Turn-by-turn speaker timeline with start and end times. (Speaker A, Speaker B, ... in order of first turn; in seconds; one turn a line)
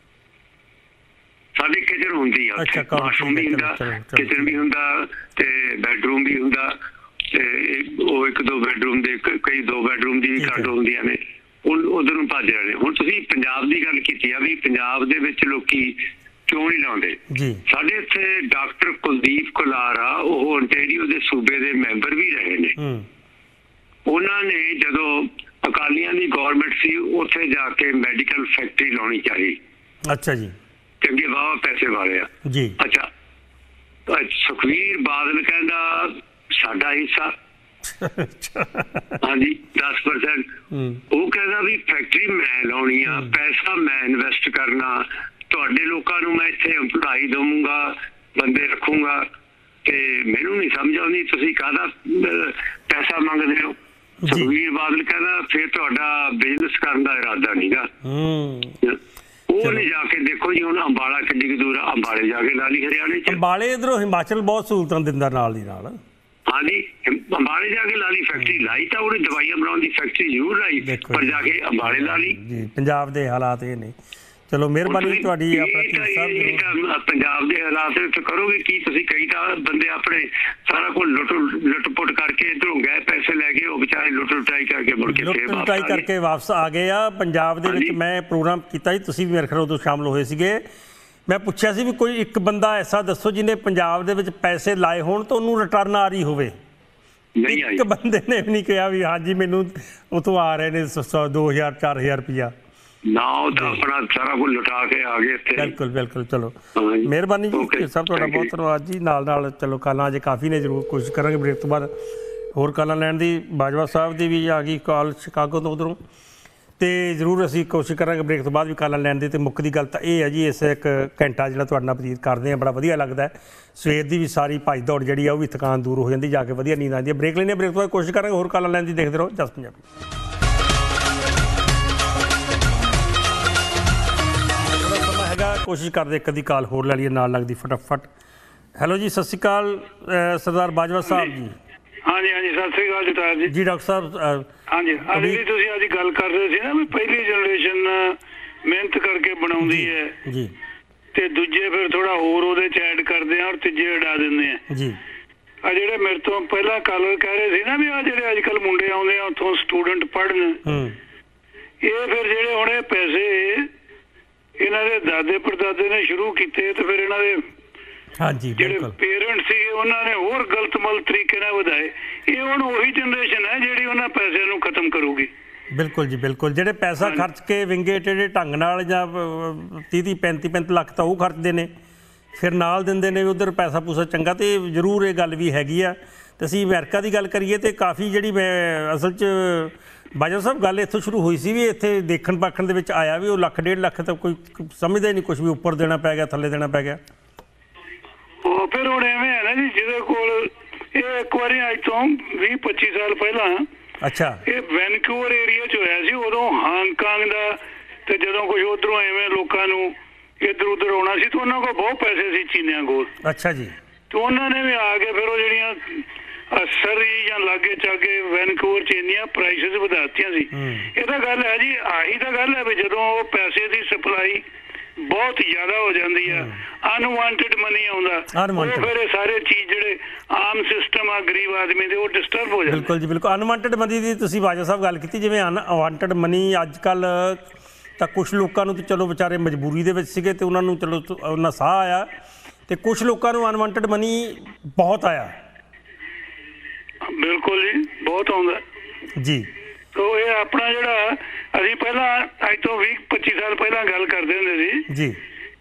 Speaker A: 1.6-6.8
Speaker B: 2.6-4.6
Speaker A: 7.3-22.8
Speaker B: 10.4-10.7
Speaker B: 17.3-17.6
Speaker B: 22.8-23.1
Speaker A: 24.1-29.6
Speaker B: 30.1-30.6
Speaker A: 31.0-33.1
Speaker B: 32.5-32.8
Speaker A: 34.1-37.4
Speaker B: 37.9-39.2
Speaker A: 39.2-40.5
Speaker B: 40.7-41.0
Speaker A: 41.1-49.3
Speaker B: 43.1-43.4
Speaker A: 49.9-53.8
Speaker B: 54.2-54.5
Speaker A: 54.3-57.9
Speaker B: 58.0-58.8
Speaker A: 59.5-63.4
Speaker B: 59.6-59.9
Speaker B: 63.3-66.0
Speaker A: 66.5-72.4
Speaker B: 70.8-74.0
Speaker B: 74.5-76.7
Speaker A: 74.9-86.0
Speaker B: 85.1-90.6
Speaker A: 87.6-88.0
Speaker B: 91.3-96.5
Speaker A: 97.4-97.8
Speaker B: 97.5-102.5
Speaker A: 103.1-105.7
Speaker B: 103.5-103.8
Speaker B: 105.6-111.9
Speaker A: 106.8-108.5
Speaker B: 112.5-116.0
Speaker B: 116.8-129.8
Speaker B: 134.6-138.1
Speaker B: 138.8-141.6
Speaker C: 142.1-143.5
Speaker B: 143.5-144.5
Speaker C: 144.7-150.1
Speaker B: 145.1-145.4
Speaker B: 149.6-150.5
Speaker C: 151.1-154.6
Speaker B: 154.7-155.0
Speaker C: 155.6-160.6
Speaker B: 160.6-161.0
Speaker C: 161.8-163.7
Speaker C: 164.6-167.4
Speaker B: 168.2-169.0
Speaker C: 168.6-175.3
Speaker B: 175.7-181.7
Speaker C: 177.0-177.3
Speaker B: 182.4-197.0
Speaker C: 198.4-203.7
Speaker B: 204.0-204.4
Speaker C: 204.5-213.1
Speaker B: 213.2-213.7
Speaker C: 214.1-224.4
Speaker B: 220.5-220.9
Speaker C: 225.0-232.9
Speaker B: 226.3-226.6
Speaker B: 228.3-228.9
Speaker B: 232.7-237.4
Speaker B: 238.0-242.1
Speaker B: 242.7-245.3
Speaker C: 247.1-248.6
Speaker B: 249.2-249.5
Speaker C: 249.9-254.8
Speaker B: 254.9-255.2